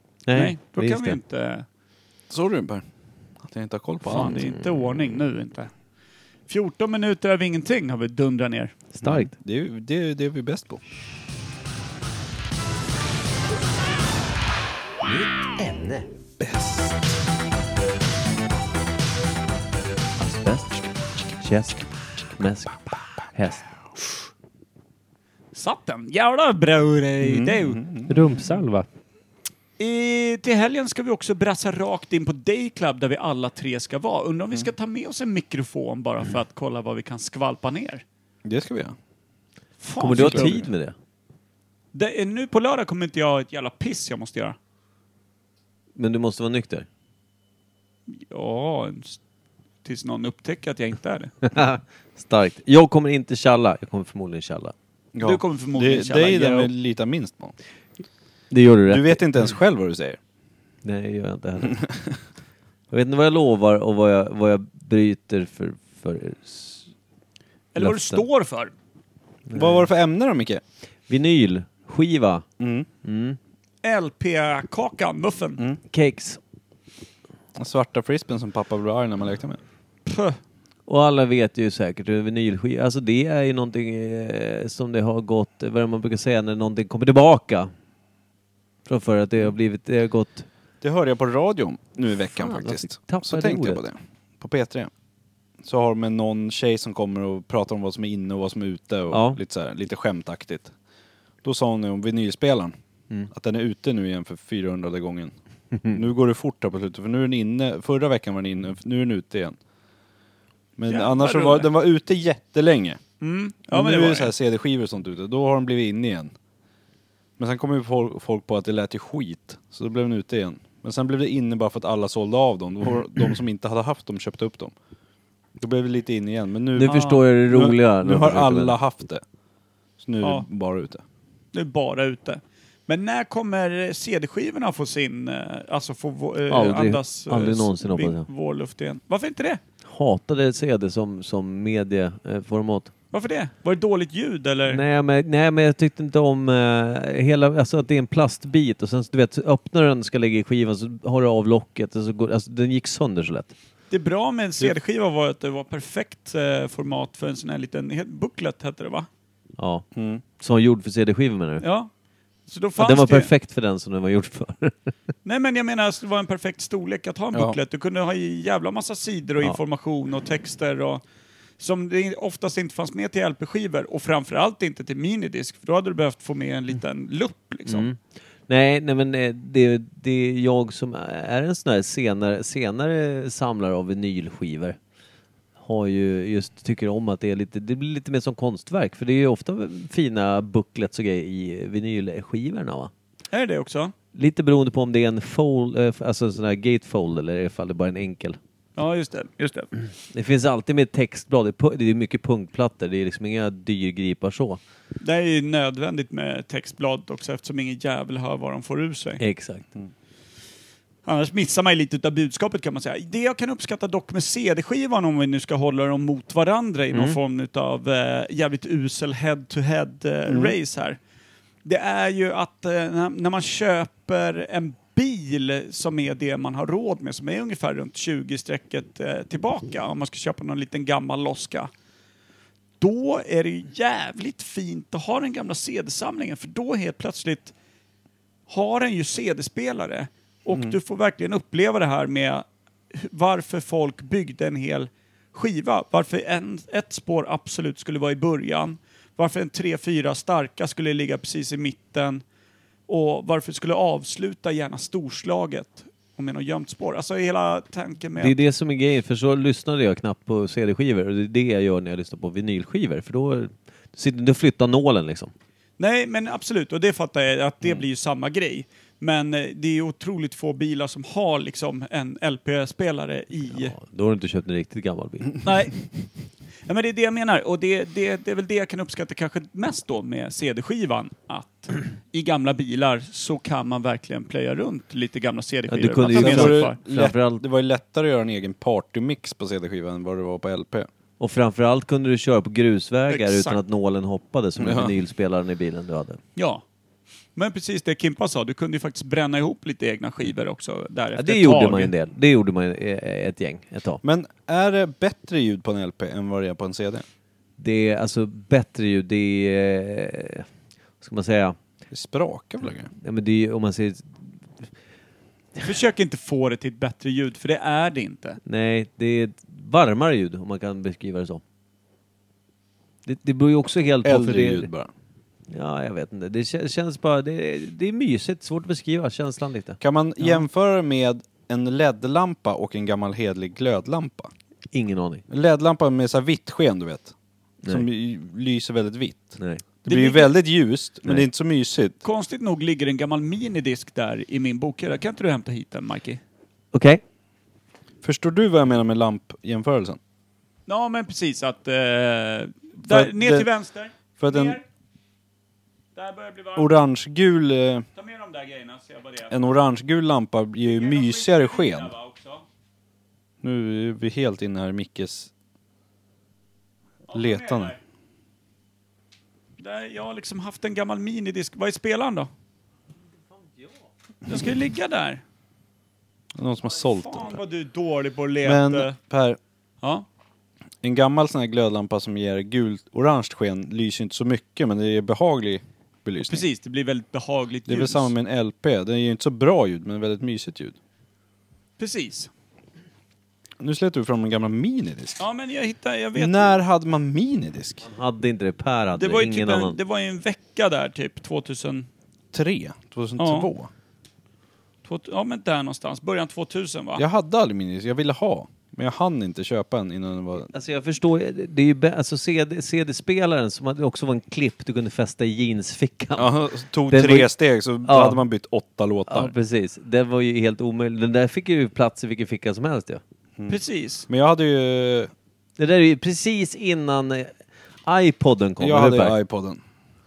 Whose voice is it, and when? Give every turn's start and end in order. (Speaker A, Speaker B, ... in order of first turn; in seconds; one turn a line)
Speaker A: 0.3-1.2
Speaker B: 0.3-1.6
Speaker C: 2.3-2.8
Speaker C: 3.4-4.4
Speaker B: 4.0-5.7
Speaker A: 4.3-4.7
Speaker B: 6.5-8.7
Speaker A: 8.9-9.3
Speaker C: 9.0-10.8
Speaker A: 15.0-16.1
Speaker C: 16.4-17.1
Speaker A: 20.2-23.8
Speaker B: 25.5-27.8
Speaker C: 27.2-28.4
Speaker A: 28.1-28.9
Speaker B: 29.8-38.0
Speaker C: 38.4-38.9
Speaker B: 39.8-40.7
Speaker A: 40.0-40.9
Speaker C: 40.1-40.6
Speaker B: 41.9-44.5
Speaker A: 46.0-46.9
Speaker B: 48.1-49.2
Speaker B: 49.8-51.3
Speaker A: 51.4-54.7
Speaker C: 55.1-57.5
Speaker B: 55.2-56.7
Speaker A: 58.5-59.2
Speaker C: 58.9-60.2
Speaker A: 60.8-61.8
Speaker A: 62.9-66.9
Speaker B: 67.7-68.7
Speaker A: 67.8-68.2
Speaker A: 69.5-69.9
Speaker C: 69.5-70.6
Speaker A: 71.1-72.5
Speaker C: 72.6-72.9
Speaker A: 73.0-73.4
Speaker B: 73.8-75.6
Speaker A: 75.9-76.4
Speaker C: 77.5-79.6
Speaker B: 80.0-80.4
Speaker A: 80.9-87.7
Speaker A: 88.8-90.5
Speaker C: 90.8-94.9
Speaker A: 92.3-93.8
Speaker C: 95.6-100.7
Speaker A: 99.1-99.4
Speaker C: 101.4-102.8
Speaker C: 103.3-105.3
Speaker A: 105.7-106.0
Speaker C: 105.9-109.6
Speaker C: 110.8-113.0
Speaker B: 110.9-111.7
Speaker B: 113.2-114.3
Speaker C: 113.7-116.3
Speaker C: 117.4-124.7
Speaker C: 125.6-129.2
Speaker A: 126.8-128.8
Speaker B: 126.8-127.2
Speaker C: 130.0-131.0
Speaker B: 131.5-139.6
Speaker A: 136.5-138.3
Speaker A: 139.8-142.9
Speaker B: 143.1-144.8
Speaker A: 144.7-153.5
Speaker B: 153.9-159.1
Speaker A: 159.6-159.8
Speaker C: 159.9-160.2
Speaker A: 160.4-161.6
Speaker B: 161.6-161.9
Speaker B: 162.5-163.3
Speaker A: 162.8-164.9
Speaker B: 165.2-171.0
Speaker B: 171.6-177.9
Speaker A: 177.7-184.8
Speaker A: 185.6-192.9
Speaker B: 193.3-193.9
Speaker A: 194.1-198.4
Speaker B: 198.8-199.7
Speaker A: 200.1-204.6
Speaker B: 205.0-209.2
Speaker A: 209.2-209.7
Speaker B: 211.0-221.0
Speaker A: 216.9-217.2
Speaker C: 220.3-220.5
Speaker B: 221.6-231.7
Speaker B: 232.8-237.5
Speaker B: 238.5-252.2
Speaker C: 240.5-240.8
Speaker B: 252.9-258.4
Speaker A: 258.2-265.3
Speaker B: 265.8-273.8
Speaker A: 273.5-275.4
Speaker B: 275.4-275.8
Speaker B: 276.7-286.8
Speaker A: 285.7-287.4
Speaker C: 286.1-290.9
Speaker A: 291.2-296.2
Speaker B: 293.1-293.6
Speaker C: 294.6-294.9
Speaker B: 296.4-296.6
Speaker B: 297.4-301.9
Speaker A: 301.1-304.0
Speaker C: 304.0-307.0
Speaker A: 307.6-310.5
Speaker A: 311.0-311.6
Speaker C: 311.9-312.9
Speaker A: 312.9-314.7
Speaker B: 315.6-318.4
Speaker A: 318.4-321.4
Speaker A: 323.1-324.7
Speaker C: 324.0-324.9
Speaker A: 325.5-329.8
Speaker C: 329.8-334.3
Speaker A: 334.7-335.2
Speaker C: 335.3-337.1
Speaker C: 337.7-342.0
Speaker A: 339.4-339.6
Speaker B: 339.9-340.3
Speaker B: 342.0-346.2
Speaker A: 346.7-347.0
Speaker C: 348.0-350.0
Speaker B: 350.7-354.6
Speaker C: 352.8-353.5
Speaker C: 354.2-354.6
Speaker B: 355.9-356.7
Speaker C: 356.6-357.9
Speaker B: 357.9-359.3
Speaker C: 359.3-361.9
Speaker B: 360.6-362.4
Speaker C: 363.4-365.3
Speaker B: 367.1-367.8
Speaker C: 367.1-367.8
Speaker B: 369.6-372.3
Speaker B: 374.3-375.2
Speaker C: 376.3-377.4
Speaker B: 376.6-378.9
Speaker C: 378.4-379.4
Speaker C: 380.8-386.4
Speaker B: 386.2-388.1
Speaker C: 387.7-390.8
Speaker B: 391.8-392.3
Speaker C: 393.6-395.3
Speaker B: 395.2-396.6
Speaker C: 396.1-397.8
Speaker A: 397.8-399.8
Speaker B: 398.9-401.9
Speaker C: 402.3-403.7
Speaker B: 403.2-403.5
Speaker B: 404.8-407.0
Speaker C: 406.9-410.5
Speaker A: 410.5-417.3
Speaker C: 416.2-419.3
Speaker A: 417.8-418.2
Speaker A: 419.1-423.0
Speaker C: 423.4-425.1
Speaker B: 423.5-424.1
Speaker A: 425.6-427.3
Speaker A: 427.9-429.2
Speaker C: 428.6-429.6